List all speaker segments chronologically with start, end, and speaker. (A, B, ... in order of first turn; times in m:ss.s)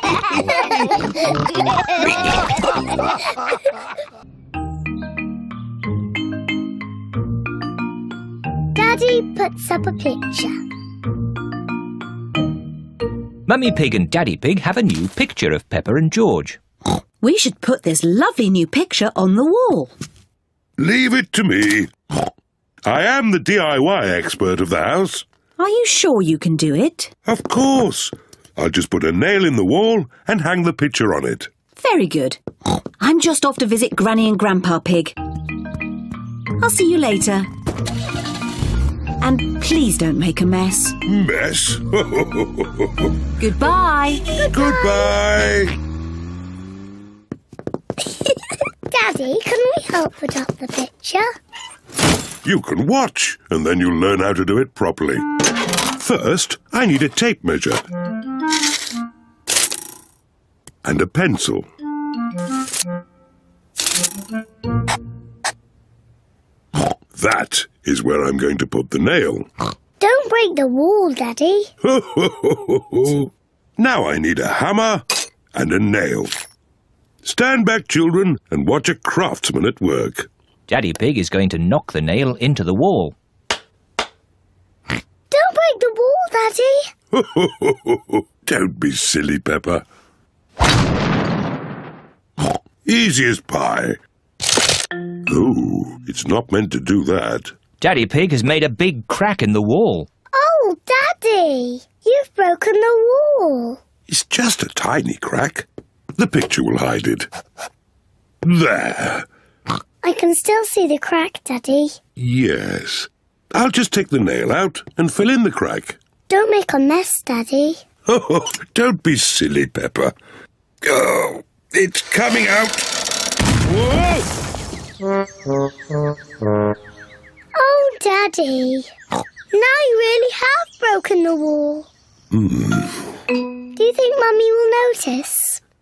0:08.7-0:10.6 A
0:13.5-0:16.6 B
0:17.2-0:19.9 C
0:20.8-0:21.9 D
0:22.8-0:25.2 D
0:25.6-0:27.1 C
0:27.2-0:31.5 D
0:31.8-0:32.4 C
0:33.0-0:35.1 C
0:36.6-0:37.5 C
0:39.2-0:41.0 C
0:41.0-0:43.1 D
0:43.4-0:44.3 C
0:44.3-0:45.1 A
0:44.4-0:45.8 D
0:48.9-0:51.3 A
0:52.4-0:57.8 D
1:00.8-1:01.7 D
1:07.1-1:09.5 D
1:10.0-1:11.7 A
1:11.8-1:16.3 D
1:17.2-1:20.3 D
1:20.7-1:23.2 B
1:25.3-1:26.9 A
1:27.1-1:29.8 D
1:32.8-1:34.0 D
1:35.3-1:37.6 D
1:37.8-1:40.1 B
1:40.3-1:43.8 A
1:44.1-1:47.3 D
1:48.4-1:49.3 D
1:50.0-1:52.0 A
1:52.2-1:56.0 D
1:56.3-1:57.8 A
1:58.1-2:00.1 D
2:00.8-2:02.9 D
2:03.6-2:04.3 D
2:07.5-2:08.9 A
2:09.5-2:11.9 A
2:12.3-2:13.0 D
2:13.8-2:15.6 A